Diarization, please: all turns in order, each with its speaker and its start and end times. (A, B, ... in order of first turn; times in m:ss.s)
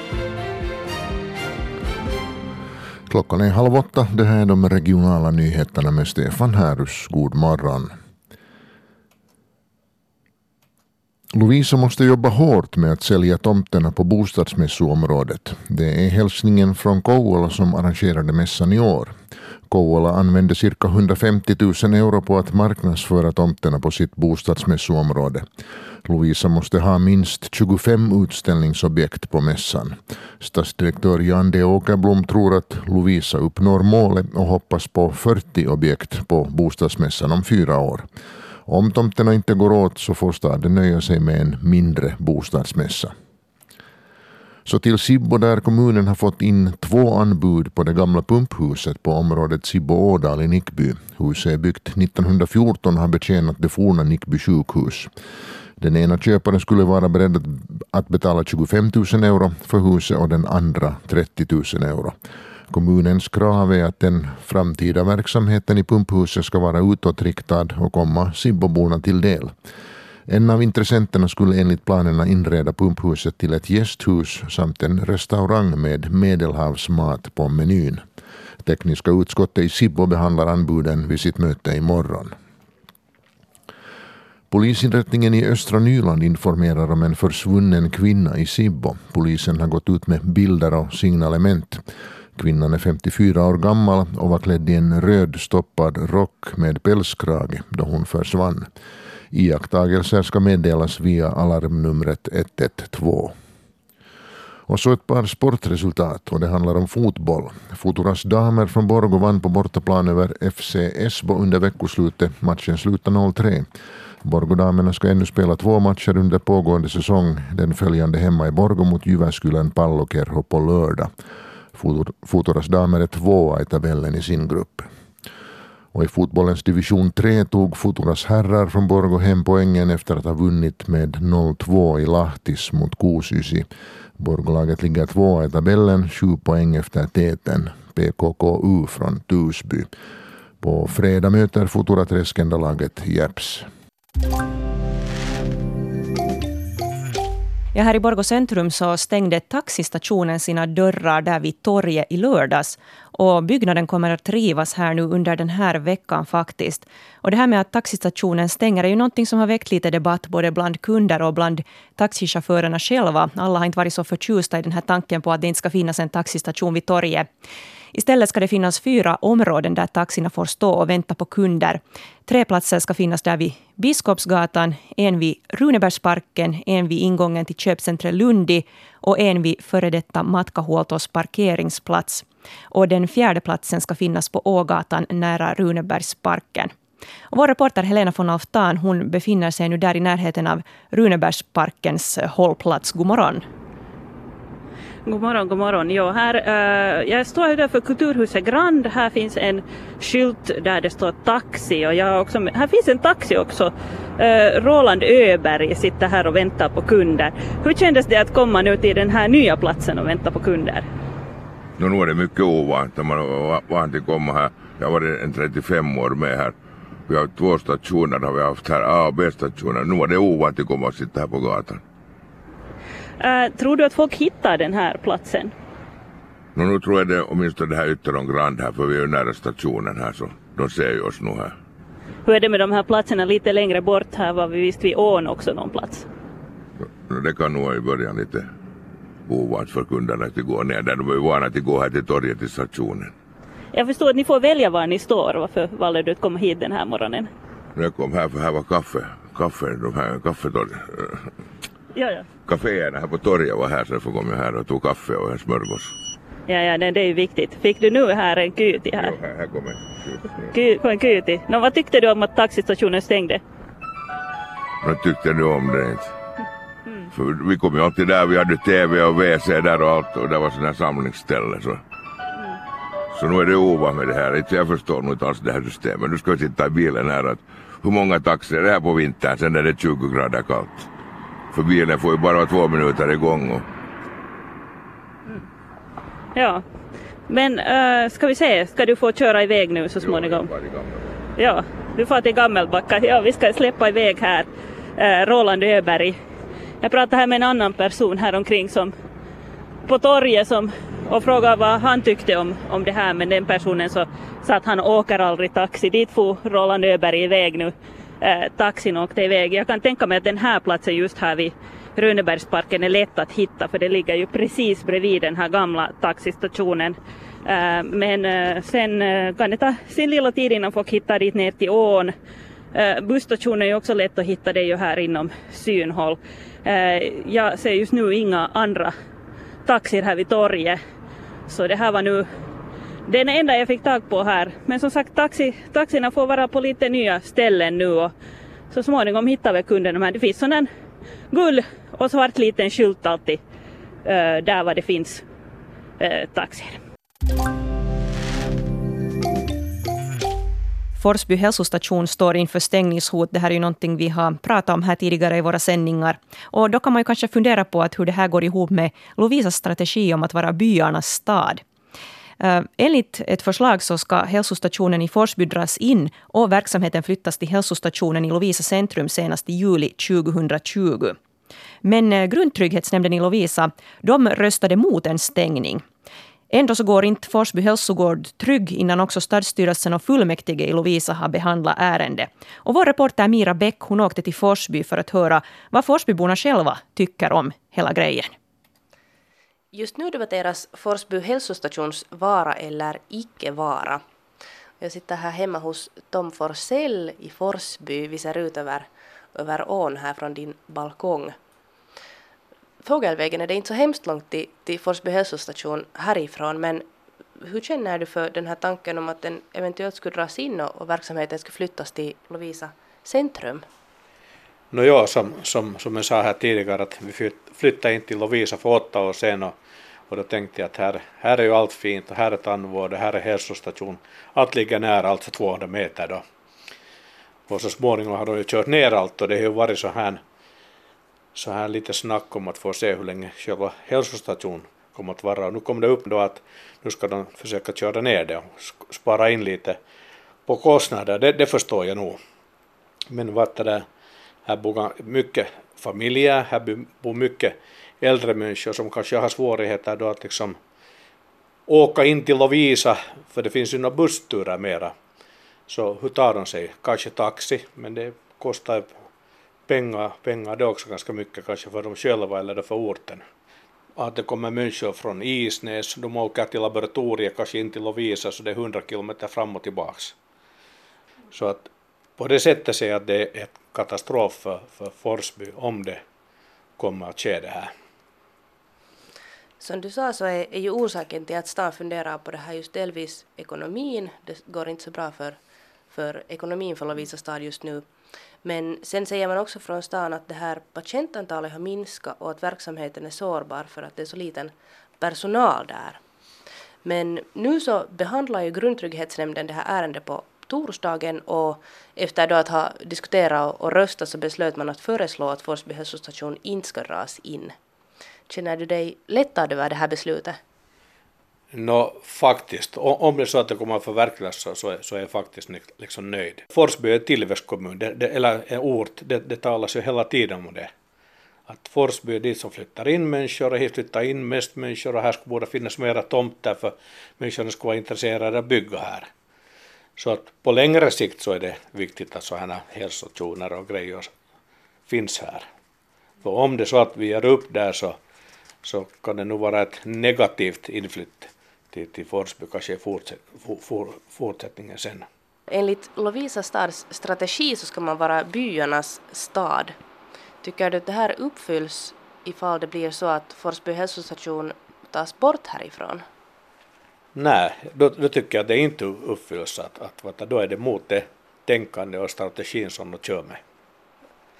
0:03.1-0:07.9 A
0:11.3-0:19.1 A
0:19.7-0:25.4 A
0:26.0-0:38.1 A
0:38.7-0:43.1 A
0:44.7-0:55.1 A
0:55.8-1:02.2 A
1:02.7-1:09.6 A
1:10.3-1:18.0 A
1:18.6-1:22.4 A
1:24.5-1:31.8 A
1:32.4-1:38.7 A
1:39.3-1:43.4 A
1:44.7-1:53.7 A
1:54.2-2:01.1 A
2:01.8-2:04.9 A
2:05.9-2:19.9 A
2:20.6-2:23.7 A
2:27.7-2:47.3 B
2:47.9-3:06.7 B
3:07.3-3:13.4 B
3:15.1-3:30.9 C
3:31.8-3:36.6 D
3:37.1-3:41.8 D
3:43.2-3:45.5 C
3:46.6-3:51.6 D
3:52.3-3:56.0 C
3:57.1-3:58.5 D
3:59.3-4:03.1 D
4:03.7-4:07.3 C
4:07.8-4:11.3 D
4:12.0-4:12.3 C
4:12.5-4:15.9 D
4:16.5-4:19.2 C
4:19.0-4:20.5 D
4:20.5-4:23.4 C
4:24.8-4:26.1 D
4:27.1-4:31.8 D
4:33.1-4:40.9 D
4:41.5-4:43.6 D
4:46.3-4:46.6 C
4:47.3-4:50.5 C
4:50.0-4:51.1 D
4:51.4-4:56.2 C
4:56.8-4:58.9 C
4:59.9-5:22.1 C
5:22.7-5:28.9 C
5:29.7-5:30.8 C
5:31.5-5:32.3 C
5:33.1-5:38.1 C
5:38.7-5:40.7 C
5:41.3-5:43.4 C
5:44.1-5:45.2 C
5:46.0-5:46.8 C
5:51.0-6:01.6 B
6:02.4-6:11.2 B
6:11.8-6:15.8 B
6:16.5-6:28.3 B
6:29.7-6:34.0 E
6:34.8-6:41.4 E
6:42.8-6:46.9 E
6:47.4-6:53.7 E
6:54.7-6:59.6 F
7:00.1-7:06.2 F
7:07.5-7:10.2 F
7:11.4-7:19.8 F
7:20.5-7:22.2 F
7:23.1-7:23.8 F
7:24.5-7:30.6 F
7:31.7-7:34.9 F
7:35.7-7:38.9 F
7:39.7-7:43.2 F
7:44.0-7:50.2 F
7:51.3-7:56.0 F
7:56.8-7:57.7 F
7:59.6-8:05.4 E
8:05.9-8:07.9 E
8:08.4-8:16.0 E
8:16.8-8:27.5 E
8:28.3-8:30.4 E
8:31.5-8:40.7 F
8:41.5-8:49.1 F
8:50.0-8:54.1 F
8:54.9-8:55.4 F
8:56.2-8:58.0 F
8:58.6-9:05.1 F
9:05.5-9:09.8 E
9:10.4-9:16.0 E
9:17.2-9:23.4 F